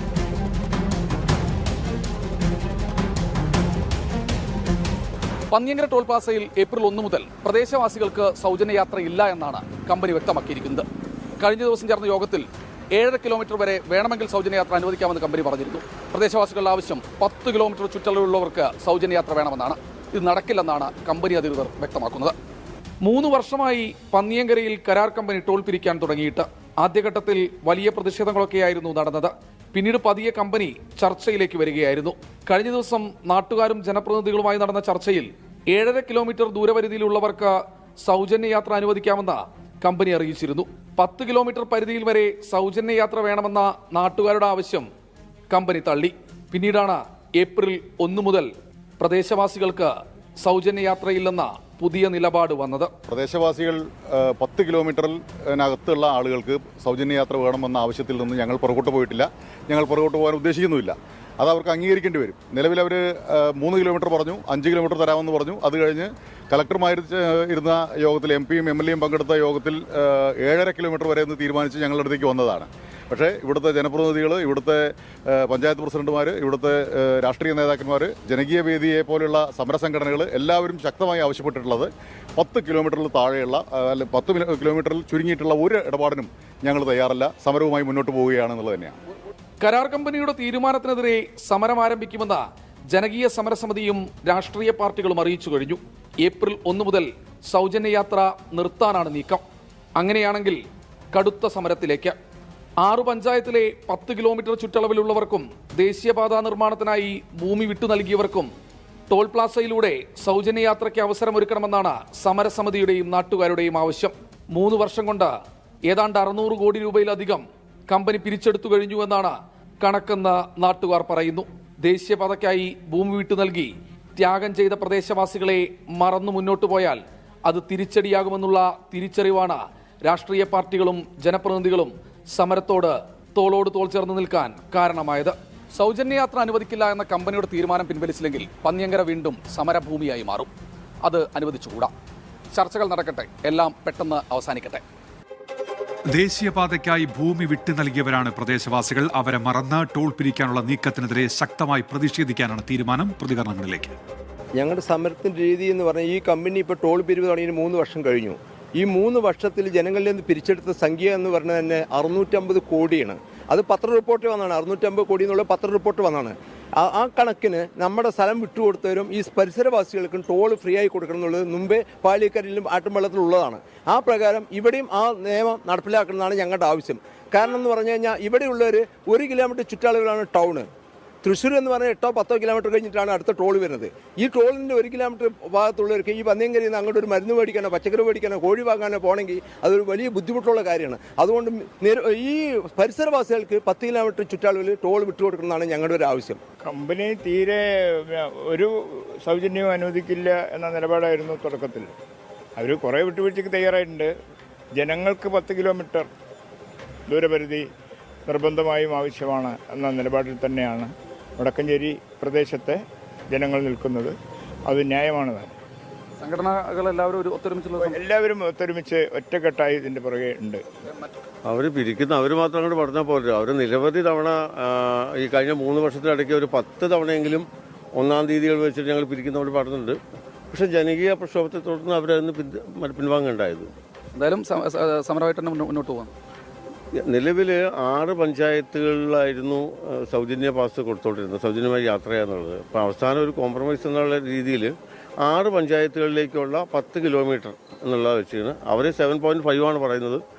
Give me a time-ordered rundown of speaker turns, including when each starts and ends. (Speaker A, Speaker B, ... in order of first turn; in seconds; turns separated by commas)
Speaker A: 5.5-10.8, Speaker A: 11.4-22.3, Speaker A: 23.0-44.9, Speaker A: 45.5-48.5, Speaker A: 49.0-52.9, Speaker B: 53.1-89.0, Speaker A: 89.6-92.4, Speaker A: 92.9-99.4, Speaker A: 100.0-100.6, Speaker A: 101.1-102.1, Speaker A: 102.8-108.5, Speaker A: 109.1-115.3, Speaker A: 115.9-140.5, Speaker A: 141.0-141.9, Speaker A: 142.5-144.8, Speaker C: 146.1-153.9, Speaker D: 154.5-180.7, Speaker D: 181.2-196.4, Speaker E: 196.6-201.9, Speaker E: 202.6-204.1, Speaker E: 204.8-206.1, Speaker E: 207.1-207.6, Speaker E: 208.2-214.1, Speaker E: 214.7-215.5, Speaker A: 216.2-218.0, Speaker E: 217.8-220.6, Speaker F: 221.5-230.0, Speaker F: 230.5-233.7, Speaker A: 234.1-236.1, Speaker F: 237.1-250.2